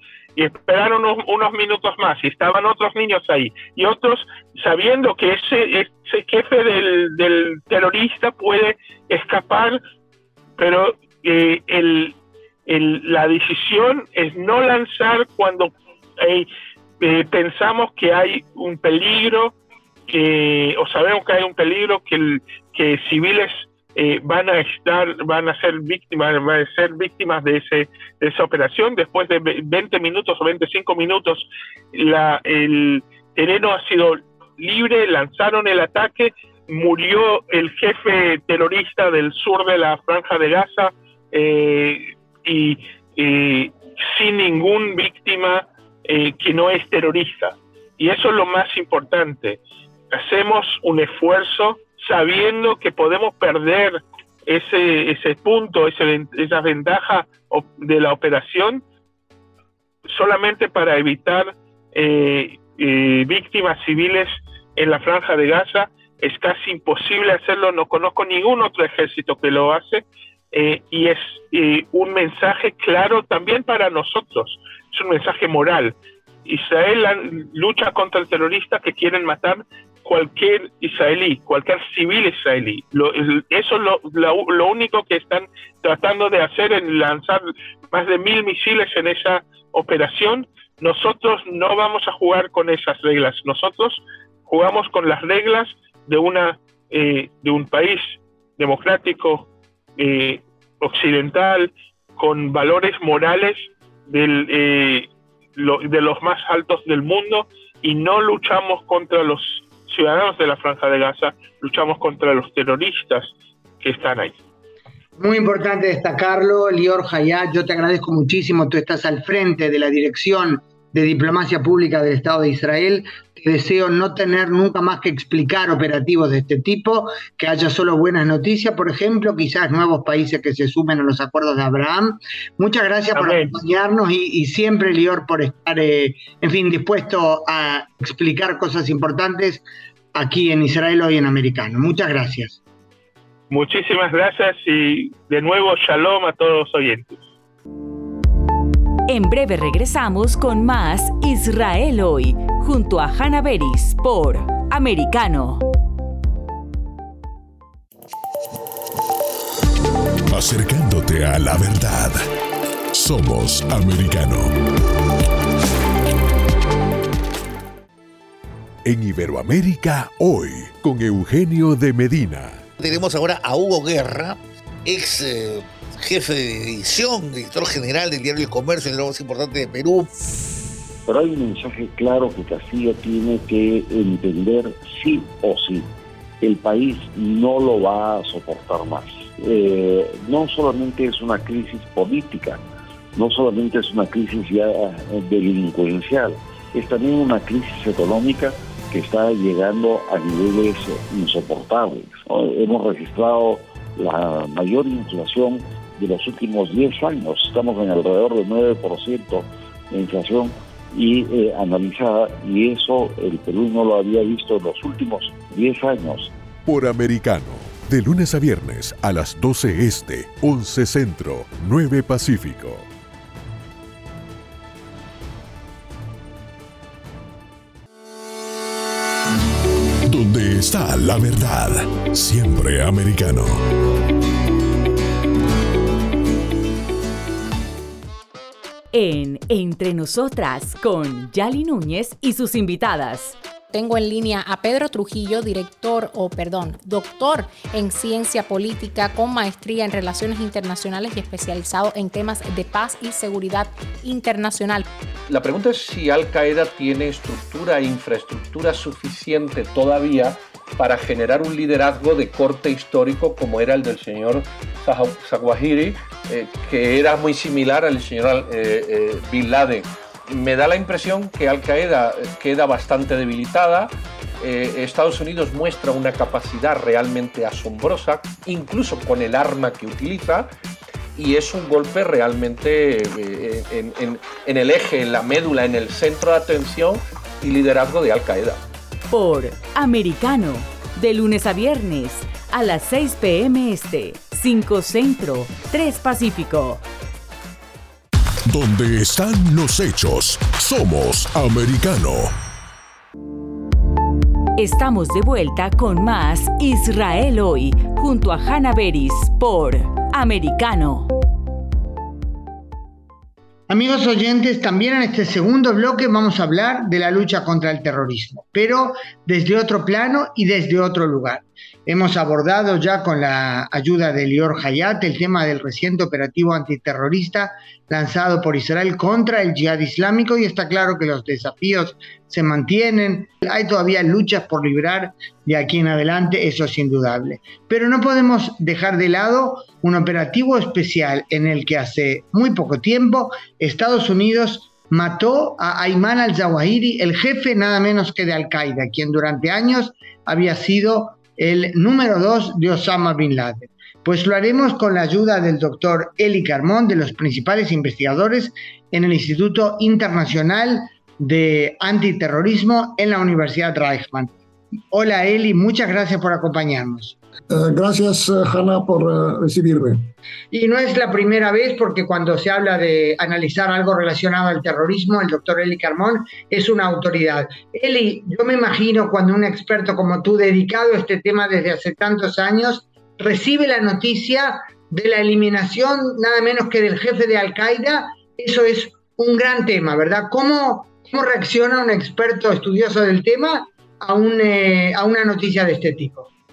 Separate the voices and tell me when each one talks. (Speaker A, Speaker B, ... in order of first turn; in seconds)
Speaker A: 0.4-9.8, 10.6-12.2, 12.7-16.5, 17.0-19.6, 20.1-49.6, 50.1-58.8, 60.1-76.0, 76.5-114.4, 133.2-133.5, 143.5-147.2
Speaker B: 115.2-142.6, 313.7-364.3, 364.9-367.2, 370.5-396.3
Speaker C: 149.1-155.6, 238.9-243.4, 289.1-296.8, 304.6-311.1
Speaker D: 160.3-162.2, 162.9-164.5, 168.8-172.7, 216.7-222.9, 230.1-233.6, 298.5-302.3
Speaker E: 172.8-180.1
Speaker F: 181.1-185.9, 186.4-192.6, 193.2-216.3
Speaker G: 243.7-254.9
Speaker H: 255.3-280.5, 281.2-288.6
Speaker I: 367.5-370.1